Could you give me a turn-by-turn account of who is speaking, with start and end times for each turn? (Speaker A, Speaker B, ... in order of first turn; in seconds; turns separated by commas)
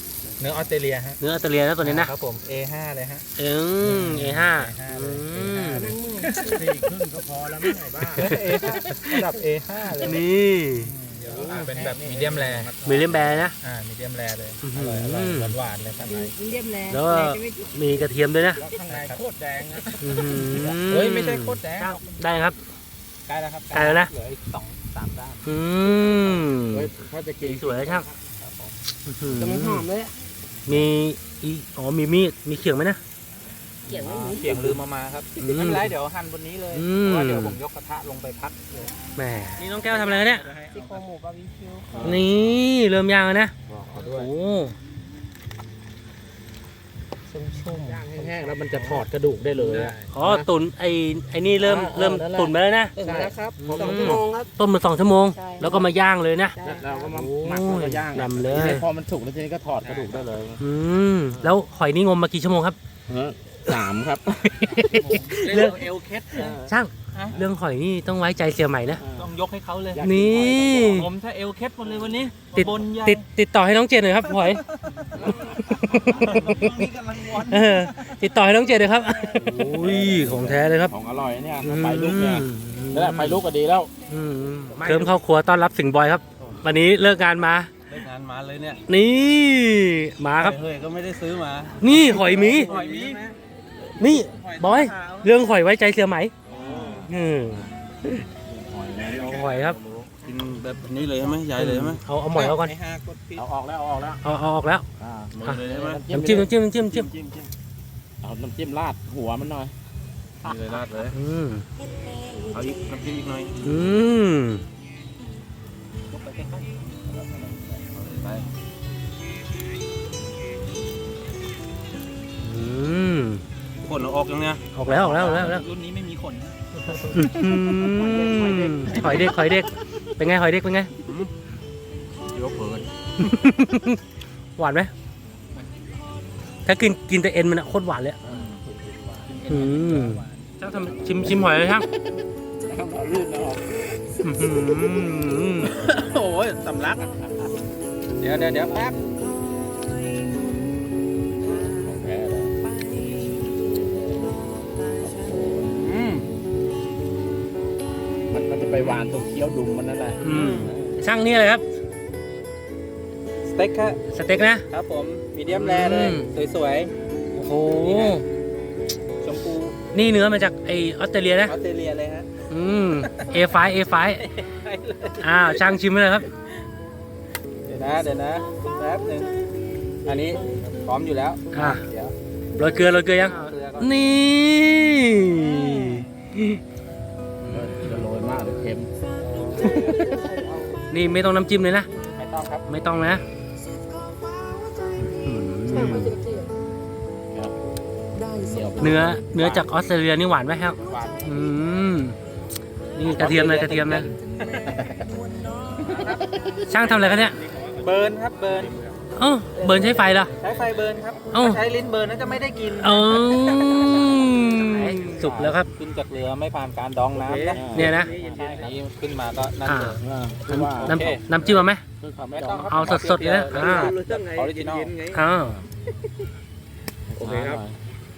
Speaker A: 0.4-1.2, Speaker B: 1.2-2.1, Speaker A: 1.8-3.2, Speaker B: 3.4-5.9, Speaker A: 3.8-6.6, Speaker C: 5.7-6.7, Speaker D: 6.4-8.4, Speaker A: 8.2-10.2, Speaker B: 8.2-9.2, Speaker B: 10.0-10.9, Speaker A: 10.8-12.7, Speaker D: 11.2-13.4, Speaker B: 12.8-13.6, Speaker A: 13.6-16.3, Speaker B: 14.6-15.6, Speaker C: 16.0-17.7, Speaker B: 16.9-18.6, Speaker D: 18.6-20.8, Speaker A: 18.9-19.2, Speaker A: 19.8-22.5, Speaker B: 20.0-22.6, Speaker A: 23.3-25.4, Speaker B: 23.7-24.1, Speaker B: 25.4-28.1, Speaker A: 26.0-26.3, Speaker D: 26.7-28.2, Speaker A: 28.4-28.7, Speaker B: 29.0-29.9, Speaker D: 29.3-30.1, Speaker B: 30.6-33.0, Speaker C: 33.9-34.7, Speaker A: 33.9-39.0, Speaker D: 33.9-34.7, Speaker B: 35.4-35.9, Speaker B: 36.7-37.6, Speaker B: 39.1-40.5, Speaker A: 39.6-41.0, Speaker C: 40.7-42.2, Speaker D: 41.9-42.2, Speaker B: 42.0-44.7, Speaker A: 43.7-44.3, Speaker C: 47.3-49.0, Speaker D: 47.8-50.5, Speaker A: 49.6-50.1, Speaker B: 50.1-53.0, Speaker D: 51.6-54.4, Speaker C: 53.0-54.5, Speaker B: 53.6-56.6, Speaker C: 55.3-55.9, Speaker C: 56.5-57.2, Speaker D: 56.6-60.6, Speaker B: 57.1-58.8, Speaker A: 59.8-60.2, Speaker B: 60.6-62.8, Speaker D: 63.1-64.8, Speaker B: 64.4-65.8, Speaker A: 64.7-66.5, Speaker D: 65.4-65.7, Speaker D: 66.3-66.7, Speaker B: 66.3-69.0, Speaker A: 67.1-67.4, Speaker D: 68.9-69.3, Speaker A: 69.2-70.0, Speaker D: 69.9-71.1, Speaker B: 70.0-71.1, Speaker A: 70.9-73.2, Speaker D: 71.8-72.2, Speaker B: 72.5-74.6, Speaker A: 74.3-78.3, Speaker D: 75.2-76.4, Speaker B: 75.3-80.9, Speaker D: 79.3-83.9, Speaker B: 81.6-83.4, Speaker B: 84.1-87.7, Speaker A: 84.7-85.1, Speaker A: 87.9-88.8, Speaker B: 88.9-90.6, Speaker A: 90.4-93.3, Speaker B: 91.8-92.7, Speaker D: 92.2-93.3, Speaker B: 94.0-96.3, Speaker A: 94.0-95.3, Speaker A: 96.5-97.1, Speaker D: 96.5-99.6, Speaker B: 97.0-97.7, Speaker B: 99.2-99.8, Speaker A: 99.8-103.4, Speaker B: 101.5-102.7, Speaker D: 103.3-104.2, Speaker B: 104.2-104.8, Speaker D: 105.0-106.5, Speaker A: 105.3-106.0, Speaker B: 105.4-107.1, Speaker A: 106.9-107.5, Speaker D: 108.2-109.7, Speaker A: 110.4-111.1, Speaker D: 110.5-110.8, Speaker B: 111.1-111.6, Speaker A: 112.5-113.6, Speaker B: 113.6-114.6, Speaker A: 116.1-118.5, Speaker B: 122.4-123.4, Speaker A: 123.8-129.6, Speaker B: 124.7-125.7, Speaker B: 127.0-130.9, Speaker C: 128.4-128.9, Speaker A: 131.0-131.3, Speaker A: 132.3-132.8, Speaker B: 133.2-134.0, Speaker B: 134.6-134.9, Speaker B: 136.6-138.2, Speaker D: 138.2-139.6, Speaker A: 139.3-141.4, Speaker B: 139.5-141.9, Speaker D: 142.6-143.8, Speaker B: 144.2-145.8, Speaker A: 145.6-147.2, Speaker A: 148.2-149.0, Speaker D: 151.5-152.9, Speaker D: 153.5-155.8, Speaker A: 155.7-156.3, Speaker D: 158.3-161.0, Speaker B: 160.2-161.6, Speaker A: 160.2-160.8, Speaker A: 163.5-164.0, Speaker B: 164.1-164.6, Speaker A: 164.7-166.9, Speaker B: 165.5-166.3, Speaker B: 167.3-168.2, Speaker A: 167.8-168.2, Speaker A: 169.2-169.7, Speaker B: 169.9-171.6, Speaker A: 171.4-172.3, Speaker B: 172.5-174.2, Speaker A: 173.0-173.6, Speaker A: 174.2-175.7, Speaker B: 175.2-176.3, Speaker A: 177.6-179.3, Speaker A: 180.0-182.1, Speaker B: 181.5-181.8, Speaker B: 182.6-186.6, Speaker A: 183.1-183.9, Speaker D: 187.5-188.9, Speaker B: 187.6-188.1, Speaker A: 189.2-189.9, Speaker C: 189.4-190.8, Speaker D: 189.6-190.1, Speaker B: 190.9-191.9, Speaker A: 192.0-192.7, Speaker B: 192.7-193.2, Speaker B: 195.0-196.2, Speaker C: 195.7-196.6, Speaker D: 198.3-199.4, Speaker B: 198.8-202.2, Speaker A: 200.8-201.3, Speaker B: 202.9-204.1, Speaker A: 203.0-204.7, Speaker D: 204.6-205.1, Speaker D: 205.7-206.3, Speaker A: 205.9-206.2, Speaker B: 206.7-207.4, Speaker A: 206.9-209.0, Speaker B: 209.1-210.3, Speaker C: 209.6-210.3, Speaker D: 209.9-211.4, Speaker A: 210.3-221.2, Speaker B: 211.3-211.6, Speaker B: 212.8-215.7, Speaker D: 217.5-218.8, Speaker B: 217.7-218.1, Speaker B: 219.6-221.8, Speaker D: 220.0-224.8, Speaker A: 222.3-225.2, Speaker B: 222.7-224.0, Speaker B: 225.1-225.6, Speaker D: 225.3-225.7, Speaker D: 227.1-227.8, Speaker A: 227.2-227.6